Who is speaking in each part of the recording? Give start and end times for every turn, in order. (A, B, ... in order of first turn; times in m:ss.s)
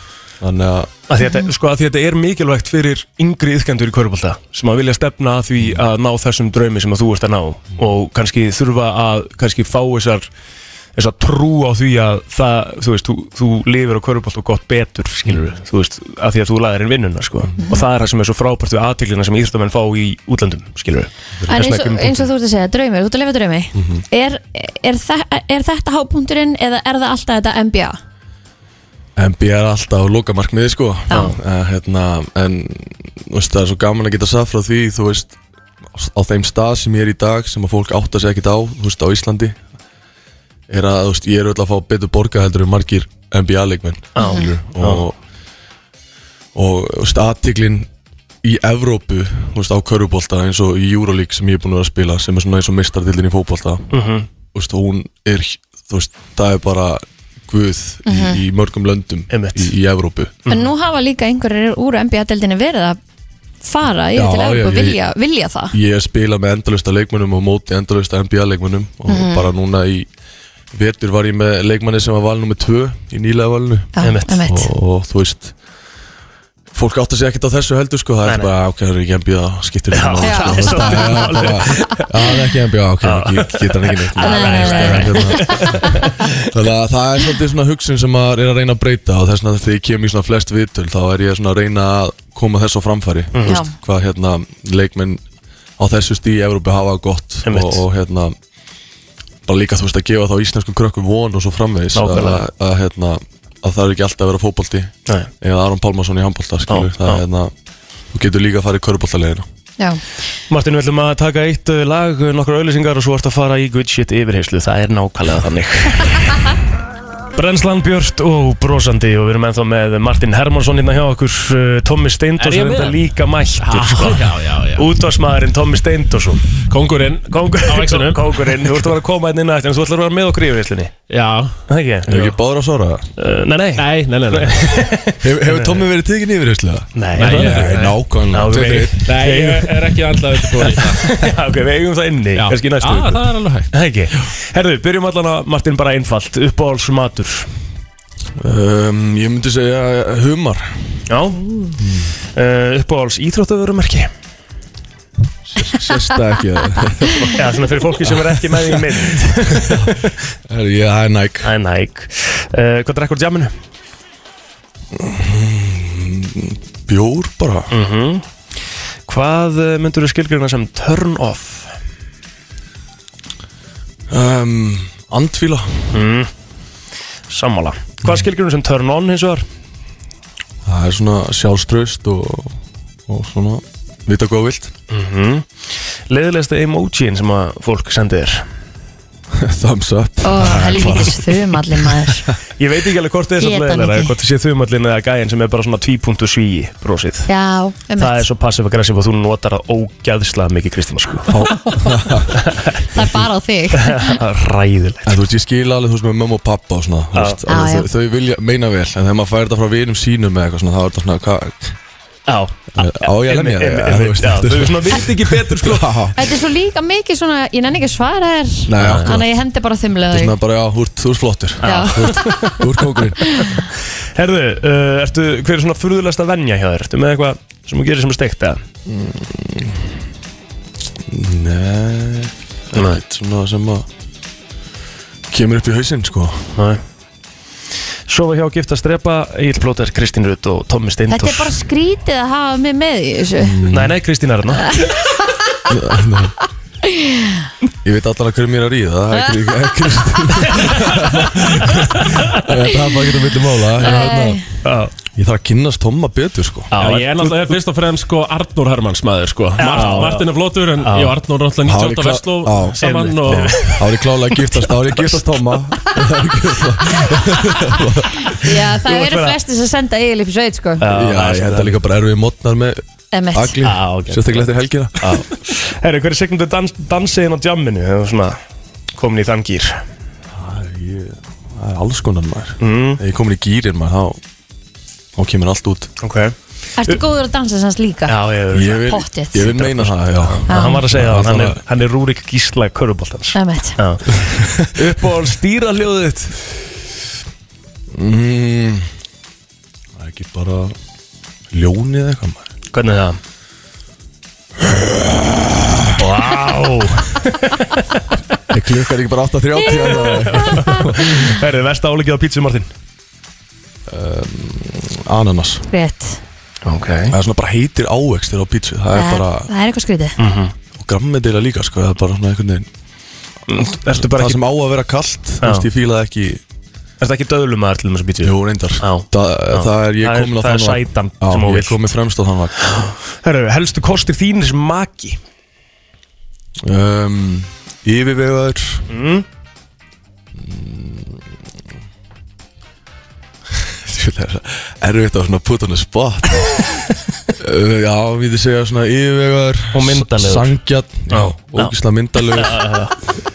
0:00.4-0:00.9 A
0:01.1-0:10.3 B
0:01.2-0:01.5 C
0:10.9-0:22.3 B
0:21.5-0:28.0 C
0:23.7-0:24.0 A
0:29.2-0:35.4 A
0:31.1-0:31.4 B
0:35.9-0:39.6 A
0:40.7-0:45.2 A
0:44.1-0:45.0 B
0:44.2-0:44.4 C
0:46.5-0:47.9 A
0:48.4-1:00.4 A
0:53.9-0:54.3 B
0:58.0-0:58.4 C
0:59.3-0:59.7 B
1:00.5-1:03.0 C
1:03.6-1:05.8 C
1:04.1-1:05.0 A
1:05.7-1:10.1 A
1:09.1-1:09.5 C
1:10.7-1:15.5 A
1:14.0-1:14.7 C
1:14.0-1:14.4 B
1:16.7-1:35.2 A
1:18.2-1:18.5 B
1:19.9-1:22.2 B
1:20.2-1:21.9 C
1:23.0-1:26.4 B
1:24.2-1:26.0 C
1:33.3-1:33.6 B
1:33.4-1:33.7 C
1:35.8-1:38.3 A
1:37.4-1:37.8 B
1:39.4-1:47.5 A
1:41.9-1:42.4 B
1:46.7-1:47.2 B
1:48.1-1:49.4 A
1:50.5-1:56.5 B
1:57.3-2:06.5 B
2:02.4-2:03.0 D
2:03.6-2:04.9 D
2:06.7-2:08.6 D
2:07.3-2:10.9 B
2:11.1-2:11.6 D
2:11.7-2:12.3 B
2:12.0-2:13.0 A
2:13.2-2:15.8 B
2:13.8-2:14.8 D
2:15.2-2:19.1 A
2:16.9-2:27.5 B
2:17.1-2:18.0 D
2:19.0-2:21.1 D
2:22.4-2:23.7 D
2:28.4-2:31.0 A
2:31.1-2:31.4 B
2:31.7-2:32.2 A
2:32.3-2:34.1 B
2:35.5-2:39.0 A
2:37.3-2:40.1 B
2:39.5-2:41.5 A
2:41.4-2:43.6 B
2:44.9-2:47.7 A
2:47.7-2:48.3 B
2:49.0-2:51.7 B
2:54.1-2:56.0 A
2:55.9-2:56.3 B
2:57.3-2:59.4 B
3:00.6-3:04.7 A
3:04.9-3:08.5 B
3:09.3-3:12.3 A
3:10.2-3:12.3 C
3:12.6-3:17.3 B
3:13.4-3:14.1 C
3:17.3-3:18.2 C
3:18.0-3:21.4 B
3:21.3-3:22.4 A
3:21.6-3:22.1 C
3:22.3-3:22.8 B
3:22.8-3:24.2 C
3:23.7-3:25.2 B
3:25.0-3:31.8 A
3:27.1-3:27.4 B
3:27.5-3:27.9 C
3:32.3-3:36.1 B
3:32.7-3:36.2 A
3:36.1-3:40.4 C
3:38.7-3:39.3 A
3:38.8-3:39.2 B
3:40.1-3:43.4 A
3:41.6-3:42.7 B
3:41.6-3:42.6 C
3:43.2-3:43.6 C
3:44.1-3:48.6 B
3:48.8-3:49.9 A
3:51.1-3:53.8 A
3:52.7-3:53.0 B
3:55.3-3:56.5 A
3:56.5-3:56.8 B
3:58.1-4:01.5 B
4:01.1-4:03.6 C
4:03.4-4:04.0 A
4:03.7-4:04.7 B
4:04.7-4:05.6 C
4:05.7-4:06.4 A
4:06.9-4:07.4 C
4:07.8-4:14.4 A
4:10.4-4:12.4 B
4:13.8-4:14.4 C
4:13.8-4:14.9 B
4:15.1-4:16.8 A
4:16.7-4:17.5 B
4:16.8-4:23.8 D
4:19.6-4:21.1 B
4:21.6-4:28.5 A
4:22.8-4:25.1 B
4:28.3-4:30.8 C
4:28.8-4:29.4 B
4:30.8-4:31.8 B
4:30.8-4:32.8 A
4:33.1-4:33.6 C
4:33.3-4:35.2 A
4:33.6-4:34.5 B
4:35.0-4:38.4 B
4:38.9-4:39.8 B
4:40.4-4:44.2 A
4:42.6-4:43.0 B
4:45.2-4:45.9 A
4:46.0-4:46.3 B
4:46.8-4:48.2 C
4:48.1-4:56.4 B
4:48.5-4:51.6 A
4:48.8-4:49.5 C
4:50.5-4:50.8 C
4:53.3-4:53.8 C
4:54.1-4:54.8 A
4:57.9-4:58.9 A
5:00.0-5:00.7 A
5:01.5-5:02.5 A
5:02.7-5:03.2 B
5:04.6-5:06.0 A
5:06.0-5:07.8 B
5:08.5-5:11.3 A
5:10.0-5:12.7 B
5:10.1-5:10.8 C
5:13.9-5:15.6 A
5:15.7-5:16.2 C
5:16.6-5:17.1 B
5:17.1-5:19.5 A
5:18.9-5:20.1 C
5:20.2-5:20.5 B
5:20.7-5:22.7 A
5:23.5-5:24.4 B
5:23.5-5:26.4 A
5:25.4-5:25.7 B
5:27.0-5:31.9 B
5:28.2-5:32.6 A
5:32.6-5:35.2 B
5:36.6-5:38.8 A
5:38.9-5:39.2 B
5:40.4-5:41.2 A
5:43.5-5:46.7 A
5:47.4-5:52.7 A
5:49.7-5:50.5 B
5:51.1-5:51.7 B
5:52.3-5:52.9 B